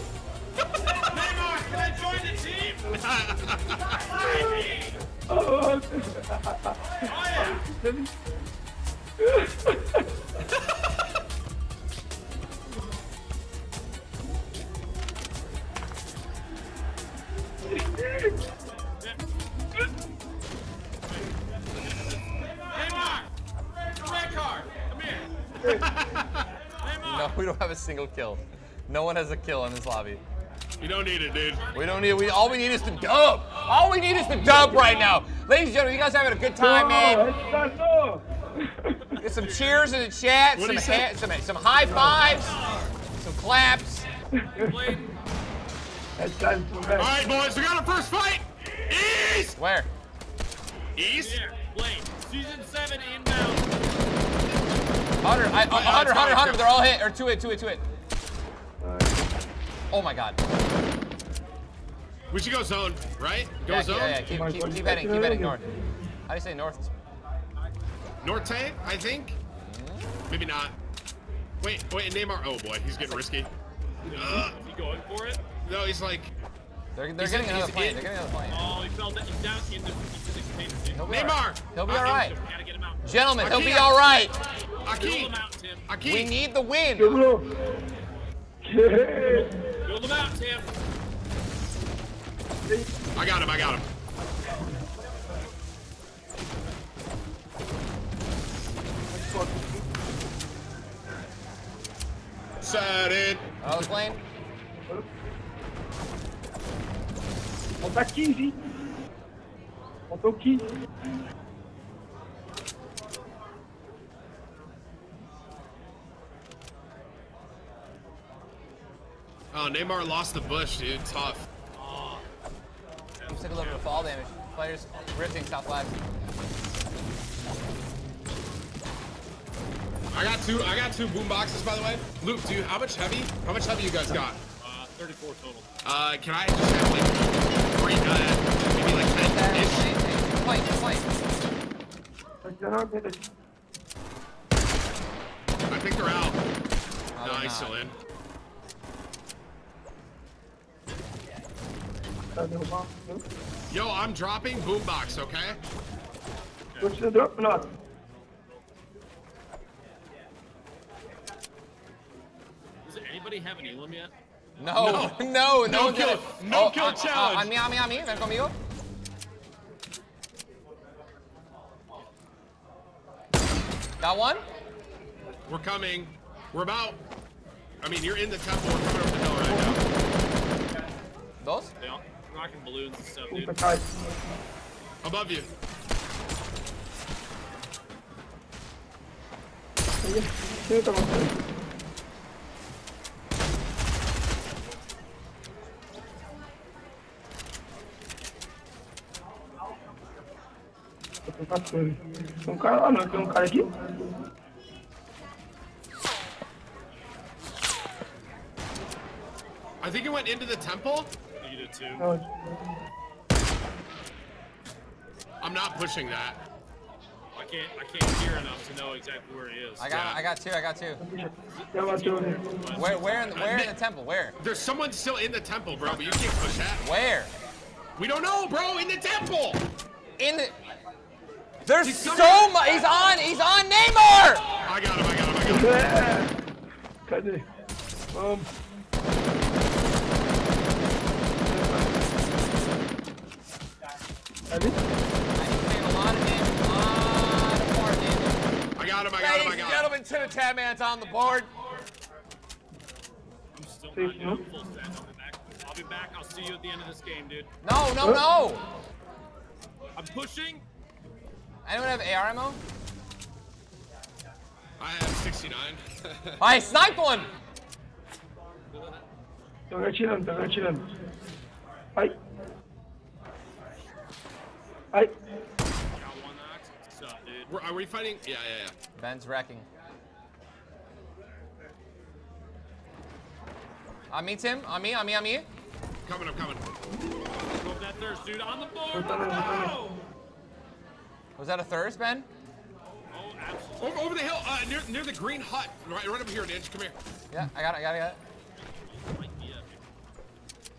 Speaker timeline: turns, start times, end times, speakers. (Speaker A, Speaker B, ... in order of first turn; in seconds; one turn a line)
Speaker A: 1.0-1.8
Speaker B: 1.7-2.8
Speaker A: 2.9-4.0
Speaker C: 5.3-8.1
Speaker B: 7.1-7.5
Speaker C: 9.2-10.0
Speaker C: 17.8-18.3
Speaker B: 22.7-23.3
Speaker B: 24.1-25.3
Speaker A: 25.6-26.5
Speaker B: 26.8-27.3
Speaker D: 27.0-30.2
Speaker A: 30.8-31.6
Speaker B: 31.4-33.4
Speaker D: 31.7-37.3
Speaker C: 36.6-39.0
Speaker B: 39.1-39.9
Speaker D: 39.2-42.5
Speaker A: 40.5-41.1
Speaker C: 41.8-42.3
Speaker D: 43.1-44.0
Speaker C: 44.4-45.0
Speaker B: 44.5-45.0
Speaker C: 46.2-47.1
Speaker A: 47.0-49.5
Speaker D: 49.5-49.9
Speaker A: 51.0-51.4
Speaker B: 51.1-53.7
Speaker D: 55.2-57.8
Speaker A: 55.7-56.8
Speaker C: 58.8-59.2
Speaker D: 59.9-60.4
Speaker A: 62.3-64.2
Speaker D: 63.6-65.6
Speaker C: 64.2-65.6
Speaker D: 66.3-66.9
Speaker A: 68.2-69.4
Speaker D: 69.6-70.1
Speaker A: 70.3-70.7
Speaker A: 71.6-73.5
Speaker A: 74.1-74.5
Speaker B: 74.3-75.4
Speaker A: 75.6-76.3
Speaker D: 76.9-78.8
Speaker A: 77.2-78.0
Speaker B: 78.5-81.0
Speaker D: 80.9-82.3
Speaker A: 81.1-82.3
Speaker B: 81.9-83.0
Speaker D: 83.0-84.3
Speaker A: 83.4-84.0
Speaker A: 84.8-85.3
Speaker B: 84.9-85.9
Speaker A: 85.9-86.3
Speaker D: 86.0-87.2
Speaker C: 86.9-87.5
Speaker C: 88.6-89.5
Speaker B: 89.2-90.7
Speaker A: 93.1-93.9
Speaker C: 99.1-99.8
Speaker A: 102.6-103.4
Speaker D: 103.6-104.2
Speaker C: 107.8-108.5
Speaker C: 110.1-110.6
Speaker A: 119.5-121.4
Speaker B: 121.7-122.2
Speaker B: 123.2-124.0
Speaker D: 123.3-126.0
Speaker B: 130.1-130.7
Speaker A: 130.1-134.4
Speaker B: 134.6-135.7
Speaker A: 135.8-139.9
Speaker D: 138.9-141.1
Speaker C: 142.4-143.2
Speaker A: 145.7-146.4
Speaker D: 147.2-147.8
Speaker A: 147.2-147.9
Speaker C: 152.3-153.2
Speaker A: 153.7-155.6
Speaker C: 156.8-157.6
Speaker B: 162.8-164.1
Speaker D: 164.6-168.5
Speaker A: 164.7-167.5
Speaker D: 174.0-174.4
Speaker A: 175.5-177.0
Speaker A: 177.8-179.8
Speaker C: 179.5-179.8
Speaker D: 181.4-181.7
Speaker B: 181.8-183.5
Speaker C: 183.3-184.2
Speaker A: 185.0-185.5
Speaker C: 190.0-191.3
Speaker C: 201.3-203.7
Speaker A: 209.8-211.1
Speaker B: 211.4-212.1
Speaker C: 212.0-212.3
Speaker A: 215.4-216.4
Speaker B: 217.3-219.9
Speaker D: 219.8-221.0
Speaker A: 219.9-220.2
Speaker C: 221.0-222.4
Speaker B: 221.5-223.6
Speaker D: 222.7-224.3
Speaker A: 223.3-223.7
Speaker A: 224.4-226.8
Speaker B: 225.7-226.6
Speaker D: 226.8-227.3
Speaker A: 228.0-229.6
Speaker D: 230.2-230.5
Speaker D: 231.6-234.5
Speaker A: 231.8-232.5
Speaker A: 234.6-235.7
Speaker C: 235.4-236.4
Speaker C: 237.1-237.4
Speaker C: 238.1-238.5
Speaker C: 241.5-241.9
Speaker C: 244.5-244.8
Speaker D: 245.4-248.4
Speaker A: 248.8-249.9
Speaker D: 249.1-251.5
Speaker B: 253.5-257.5
Speaker C: 253.9-254.4
Speaker D: 257.6-258.6
Speaker B: 259.9-260.6
Speaker D: 261.6-262.6
Speaker A: 264.8-266.4
Speaker D: 266.4-267.3
Speaker B: 268.7-269.0
Speaker C: 269.7-270.8
Speaker B: 275.9-277.5
Speaker A: 277.5-278.7
Speaker D: 278.9-279.6
Speaker D: 284.1-285.4
Speaker A: 286.0-286.6
Speaker B: 287.6-289.9
Speaker C: 288.9-289.8
Speaker D: 291.4-292.3
Speaker B: 293.1-294.1
Speaker A: 293.8-296.9
Speaker D: 297.3-298.2
Speaker B: 298.6-299.8